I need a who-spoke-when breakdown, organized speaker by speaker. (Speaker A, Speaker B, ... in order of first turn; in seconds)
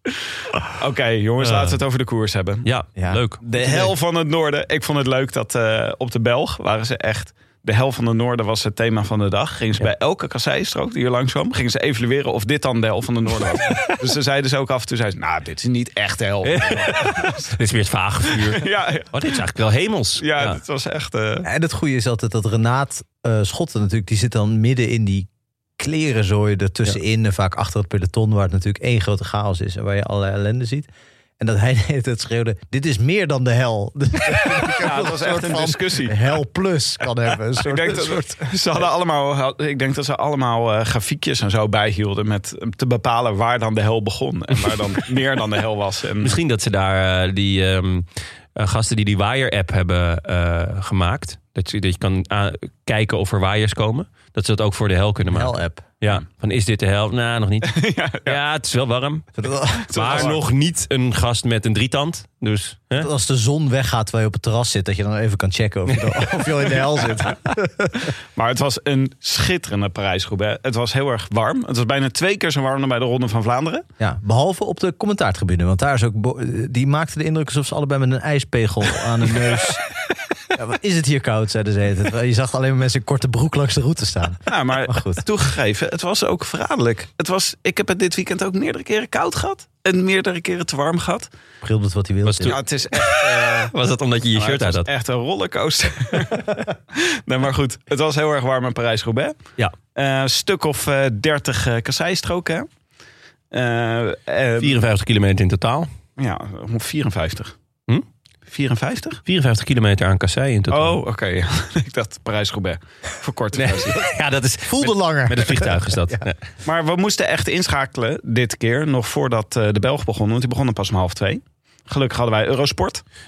Speaker A: 0.8-2.7, 3.4-17.6, 18.5-19.4, 20.2-21.5, 34.7-36.3, 37.6-46.4, 57.6-58.4, 59.9-60.4, 68.3-73.8, 84.5-91.3, 92.5-93.7, 94.3-99.3, 99.9-102.7, 103.5-104.8, 106.2-107.5, 108.5-109.2, 110.7-114.1, 116.6-123.0
Speaker B: 1.4-1.8, 2.6-3.4, 13.7-13.9, 16.4-20.6, 46.2-59.3, 59.9-63.1, 92.2-94.9, 104.6-105.9, 109.2-111.0, 113.6-116.4
Speaker C: 3.0-3.9, 21.4-38.4, 55.2-55.9, 59.4-60.3, 63.0-68.1, 74.0-79.8, 80.5-85.2, 91.6-92.6, 114.7-116.3